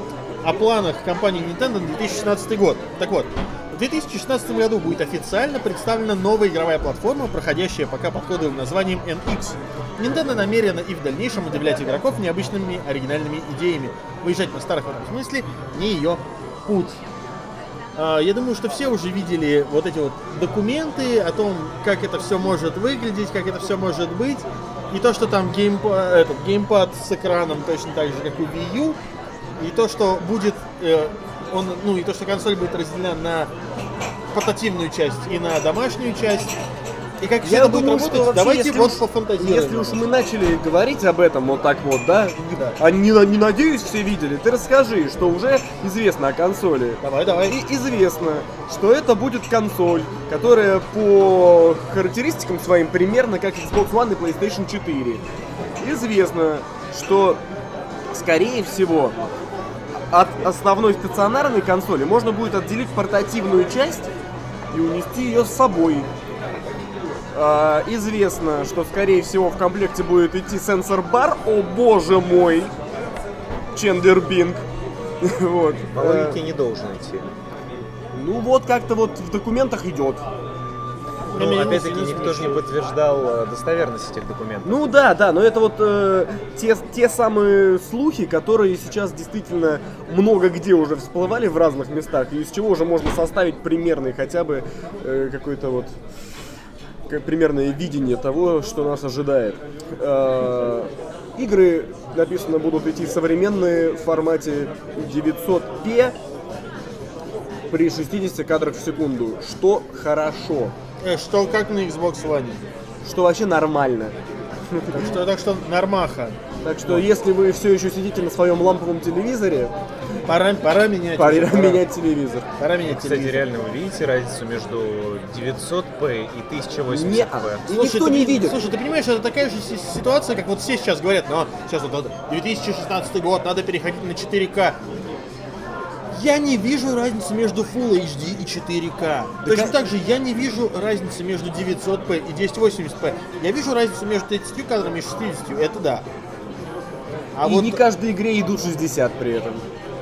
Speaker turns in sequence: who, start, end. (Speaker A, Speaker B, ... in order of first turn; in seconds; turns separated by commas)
Speaker A: 0.4-17.0, Speaker A: 17.9-29.0, Speaker A: 29.6-33.5, Speaker A: 34.3-36.5, Speaker A: 37.2-40.0, Speaker B: 37.4-55.2, Speaker A: 47.0-47.6, Speaker B: 55.8-57.4, Speaker B: 58.1-59.2, Speaker B: 60.1-64.1, Speaker B: 64.7-66.1, Speaker B: 67.3-72.7, Speaker B: 73.7-74.6, Speaker B: 75.2-76.4, Speaker C: 75.9-77.3, Speaker B: 78.1-80.2, Speaker A: 81.3-82.6, Speaker C: 81.3-84.8, Speaker B: 84.6-95.9, Speaker B: 97.1-106.2, Speaker B: 107.7-110.7, Speaker A: 111.0-112.6, Speaker B: 113.0-114.2, Speaker B: 114.7-115.2, Speaker A: 114.9-116.4, Speaker B: 116.6-119.7, Speaker A: 120.3-121.8, Speaker B: 121.2-122.5, Speaker A: 122.6-123.5, Speaker C: 122.9-127.7, Speaker B: 126.9-128.6, Speaker A: 127.7-134.8, Speaker A: 136.1-146.1, Speaker B: 139.4-139.8, Speaker A: 147.3-147.8, Speaker B: 147.4-149.7